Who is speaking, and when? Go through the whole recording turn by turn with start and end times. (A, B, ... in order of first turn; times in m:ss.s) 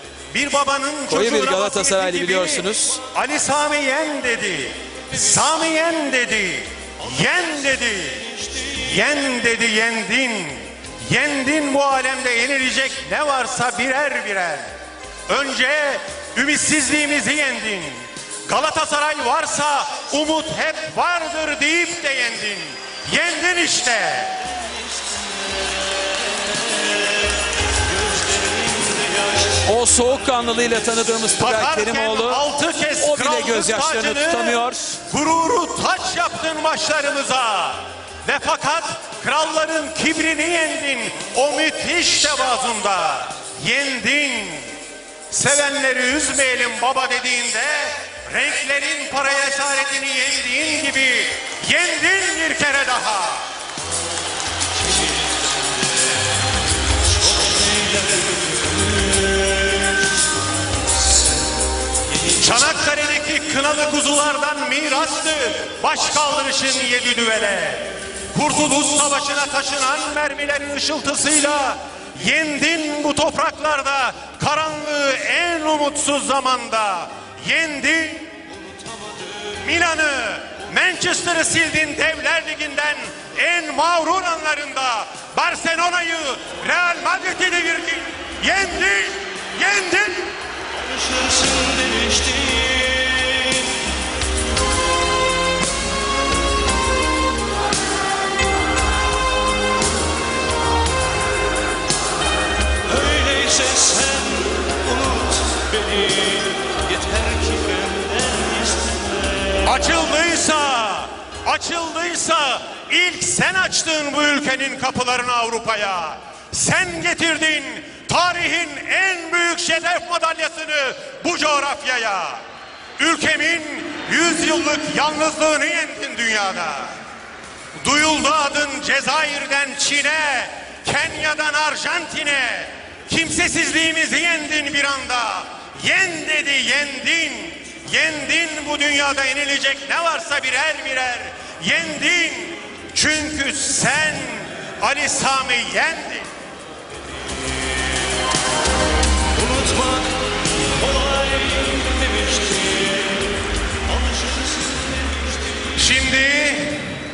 0:00.3-0:14.7 A
0:01.1-0:03.0 B
0:15.3-0:24.4 A
0:29.5-0:32.4 B
0:31.4-0:44.7 A
0:33.0-0:35.0 B
0:45.3-0:53.4 A
1:02.3-1:18.3 A
1:19.5-1:30.3 A
1:31.1-1:33.6 C
1:42.9-1:48.9 C
1:49.5-2:02.4 A
2:03.0-2:06.9 A
2:07.8-2:26.3 A
2:29.5-2:30.0 C
2:30.9-2:33.1 C
2:35.7-2:36.9 A